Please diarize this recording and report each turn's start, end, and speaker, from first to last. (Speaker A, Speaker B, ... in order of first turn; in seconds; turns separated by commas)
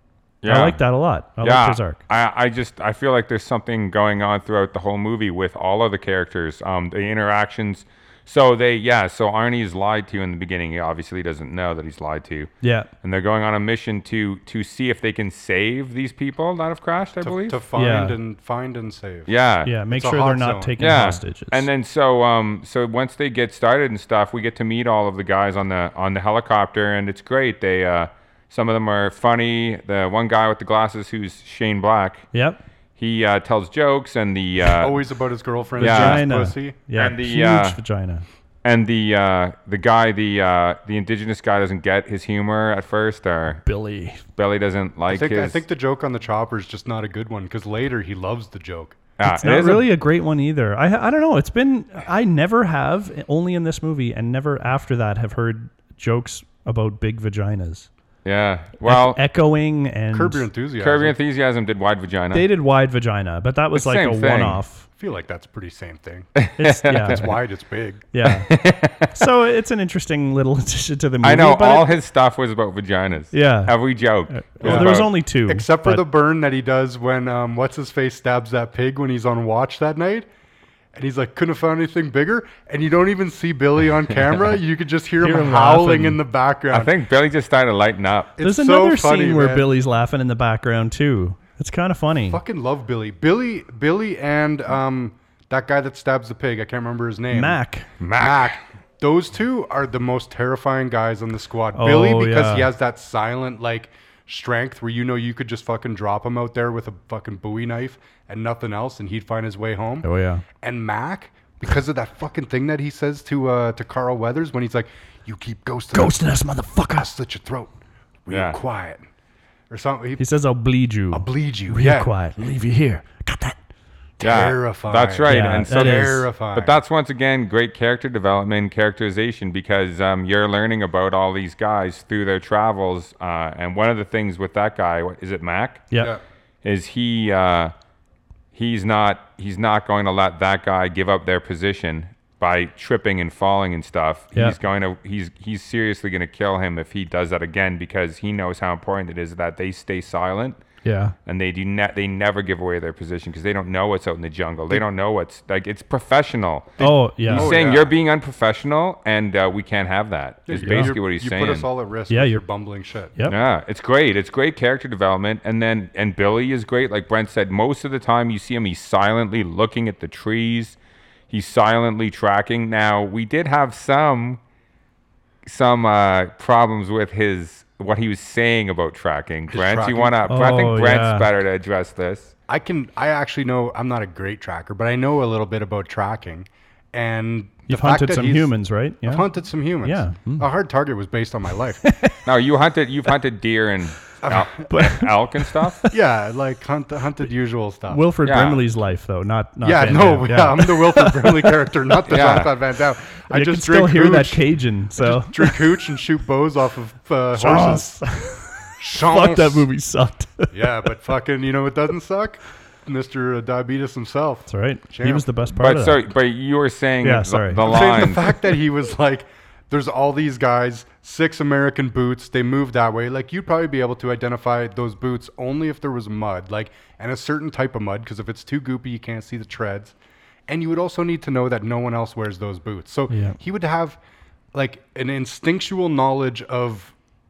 Speaker A: 0.4-0.8, Speaker B: 0.4-2.0, Speaker A: 1.4-12.5, Speaker B: 12.6-12.9, Speaker A: 13.0-17.6, Speaker C: 17.2-19.4, Speaker B: 17.8-18.2, Speaker A: 19.3-19.7, Speaker B: 19.6-21.7, Speaker C: 19.9-20.8, Speaker A: 20.8-32.3, Speaker B: 32.3-32.6, Speaker A: 33.0-35.0, Speaker C: 34.8-36.8, Speaker A: 35.8-36.3, Speaker B: 35.8-38.2, Speaker A: 37.0-37.8, Speaker A: 38.6-43.6, Speaker B: 43.5-44.2, Speaker A: 44.4-45.6, Speaker C: 45.1-49.0, Speaker A: 49.2-49.9, Speaker B: 49.2-57.9, Speaker A: 58.2-59.2, Speaker B: 58.9-60.5, Speaker C: 60.1-61.2, Speaker A: 60.8-62.5, Speaker B: 62.3-64.9, Speaker A: 63.8-64.6, Speaker C: 65.0-66.3, Speaker A: 66.4-67.3, Speaker B: 66.6-67.3, Speaker C: 66.9-68.1, Speaker B: 68.1-72.0, Speaker A: 68.2-69.2, Speaker A: 71.2-75.1, Speaker B: 73.3-73.8, Speaker B: 74.3-76.0, Speaker C: 74.6-80.3, Speaker C: 81.0-86.9, Speaker B: 85.2-86.2, Speaker A: 86.7-88.3, Speaker C: 88.4-89.7, Speaker B: 88.4-92.4, Speaker C: 92.3-110.1, Speaker B: 97.3-97.9, Speaker A: 98.0-98.6, Speaker B: 101.8-102.7, Speaker B: 110.0-110.4, Speaker C: 110.6-116.2, Speaker B: 115.9-117.1, Speaker C: 116.9-117.8, Speaker C: 118.3-119.0, Speaker A: 118.3-118.6, Speaker C: 119.7-120.2, Speaker B: 120.2-123.6, Speaker C: 121.1-122.2, Speaker C: 124.2-126.8, Speaker A: 124.2-135.9, Speaker B: 125.2-126.3, Speaker B: 135.9-136.2, Speaker A: 136.6-137.7, Speaker A: 138.5-150.6, Speaker B: 150.8-151.2, Speaker A: 151.3-161.7, Speaker C: 156.8-157.9, Speaker B: 156.8-157.6, Speaker C: 160.5-163.2, Speaker B: 160.6-161.0, Speaker B: 162.1-162.4, Speaker A: 163.3-170.8, Speaker A: 171.3-174.4, Speaker A: 175.4-182.3, Speaker C: 179.5-180.2, Speaker B: 180.3-181.3, Speaker C: 182.5-188.5, Speaker B: 187.7-189.2, Speaker C: 189.1-191.8, Speaker B: 189.8-190.5, Speaker B: 191.8-192.2, Speaker A: 192.2-195.8, Speaker C: 194.2-194.6, Speaker B: 194.7-195.9, Speaker C: 195.9-198.0, Speaker B: 197.9-201.7, Speaker A: 198.2-198.6, Speaker C: 199.6-208.0, Speaker A: 202.1-202.5, Speaker B: 203.3-205.6, Speaker B: 207.4-210.5, Speaker C: 208.8-209.7, Speaker C: 210.5-215.3, Speaker B: 214.5-216.1, Speaker A: 215.6-218.3, Speaker B: 217.0-217.7, Speaker C: 217.6-229.9, Speaker C: 230.5-234.0, Speaker B: 233.1-233.4, Speaker C: 234.5-236.9